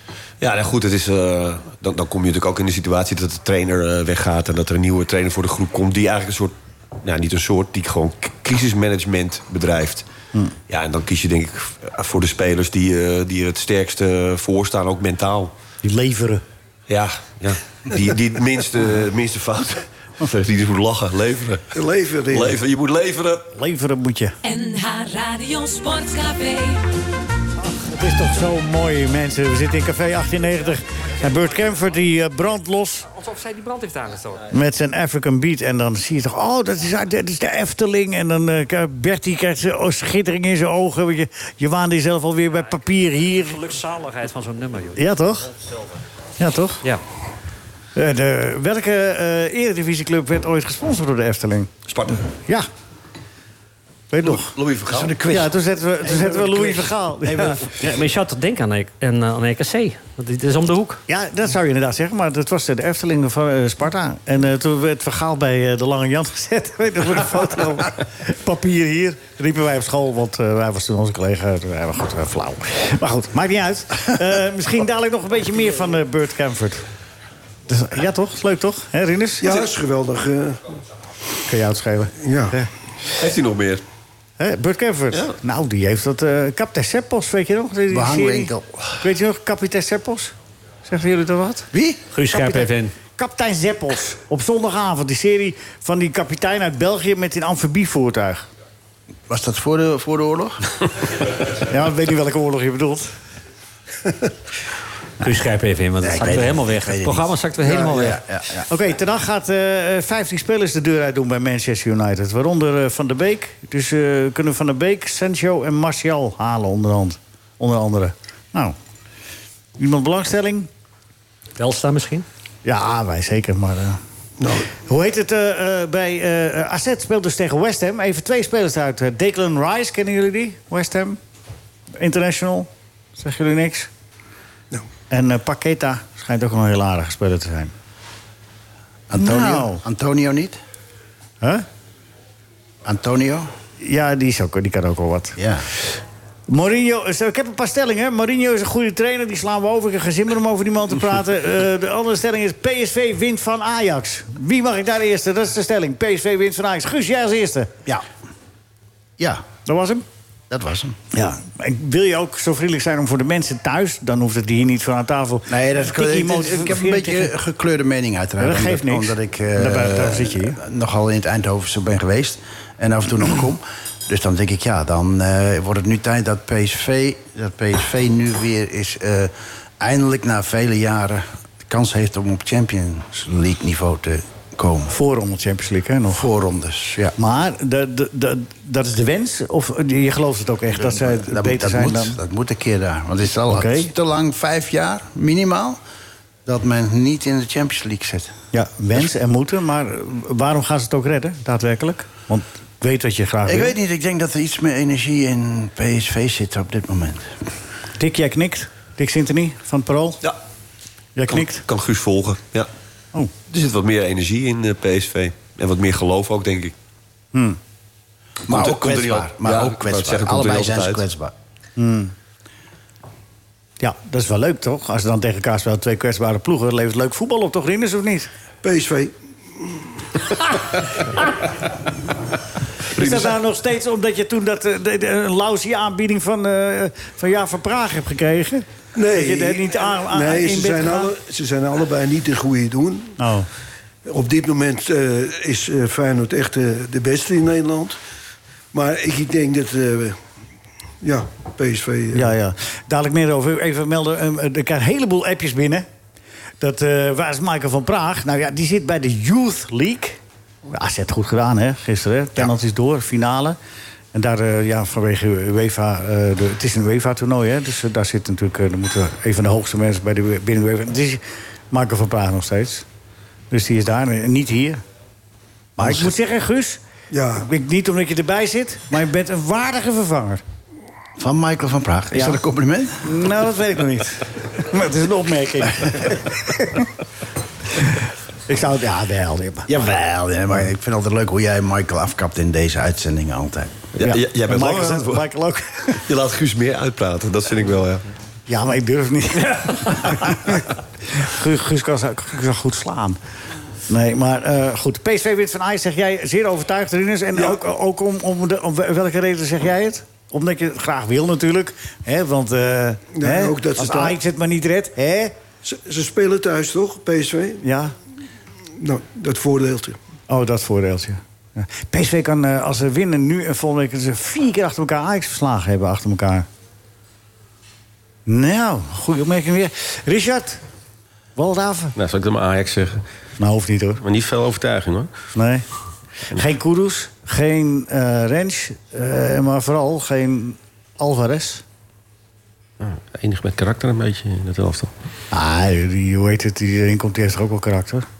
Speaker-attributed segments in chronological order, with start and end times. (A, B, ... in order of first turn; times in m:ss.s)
0:00.4-0:10.0 A
0:10.7-0:15.5 A
0:15.8-0:16.4 B
0:16.9-0:21.6 A
0:21.7-0:22.6 C
0:22.3-0:23.5 A
0:23.5-0:24.4 B
0:24.4-0:26.8 D
0:27.6-0:33.1 B
0:33.1-0:34.5 E
0:34.5-0:43.6 B
0:43.3-0:45.0 E
0:45.0-0:45.5 B
0:46.4-0:46.8 B
0:47.9-0:51.7 B
0:51.9-0:52.2 A
0:54.1-0:54.5 B
0:54.2-0:55.2 A
0:54.9-0:55.5 F
0:55.3-0:57.8 B
0:56.0-0:57.6 F
0:57.8-1:01.0 E
1:01.1-1:16.8 B
1:17.7-1:19.5 B
1:19.4-1:20.6 C
1:21.5-1:22.7 B
1:22.2-1:22.5 C
1:23.2-1:23.8 A
1:24.4-1:30.3 B
1:27.9-1:28.7 F
1:30.8-1:31.7 B
1:31.7-1:32.0 F
1:32.1-1:32.9 E
1:32.3-1:38.5 B
1:39.3-1:40.6 F
1:41.6-1:43.1 B
1:45.2-1:48.2 E
1:46.0-1:48.7 F
1:48.7-1:58.8 B
1:59.8-2:00.7 B
2:01.6-2:02.2 E
2:02.6-2:04.0 B
2:04.4-2:04.7 C
2:04.8-2:11.2 B
2:12.0-2:13.9 B
2:15.1-2:17.7 B
2:19.1-2:20.6 F
2:19.1-2:19.8 B
2:22.8-2:23.5 F
2:23.8-2:25.4 B
2:25.4-2:25.6 F
2:26.5-2:37.7 B
2:39.2-2:39.4 F
2:39.6-2:40.0 B
2:40.5-2:41.0 F
2:41.1-2:47.3 B
2:45.5-3:04.9 F
2:48.4-2:50.6 B
3:04.9-3:06.2 B
3:06.1-3:07.1 F
3:07.2-3:12.2 B
3:10.7-3:15.8 F
3:13.5-3:13.9 B
3:16.4-3:18.4 F
3:18.5-3:23.8 B
3:23.4-3:27.3 F
3:28.0-3:30.2 B
3:31.2-3:31.6 B
3:31.3-3:32.7 A
3:33.5-3:36.7 A
3:38.5-3:41.0 A
3:38.5-3:41.3 F
3:41.8-3:42.1 B
3:43.8-3:48.3 B
3:48.6-3:50.5 C
3:52.9-4:01.1 B
3:58.9-4:03.2 C
4:03.2-4:03.5 B
4:04.1-4:08.0 C
4:08.7-4:10.2 C
4:11.0-4:12.3 C
4:12.1-4:15.8 B
4:16.6-4:23.6 B
4:24.1-4:32.8 B
4:33.5-4:34.8 B
4:35.8-4:36.1 F
4:35.8-4:36.8 B
4:37.1-4:37.4 C
4:37.4-4:40.4 B
4:41.2-4:43.0 F
4:42.1-4:42.4 B
4:43.0-4:46.9 B
4:47.8-4:49.7 B
4:49.7-4:53.8 F
4:53.9-4:55.2 A
4:54.0-4:56.0 B
4:56.0-4:58.0 A
4:58.5-5:03.2 B
5:03.9-5:15.3 B
5:13.2-5:14.2 C
5:15.6-5:17.6 C
5:17.6-5:17.9 B
5:18.8-5:20.0 C
5:20.3-5:26.4 B
5:28.2-5:30.6 B
5:31.4-5:31.9 B
5:32.0-5:33.0 G
5:33.4-5:34.0 B
5:34.0-5:35.1 G
5:35.3-5:35.6 B
5:36.3-5:41.6 B
5:42.8-5:44.9 G
5:45.3-5:48.0 B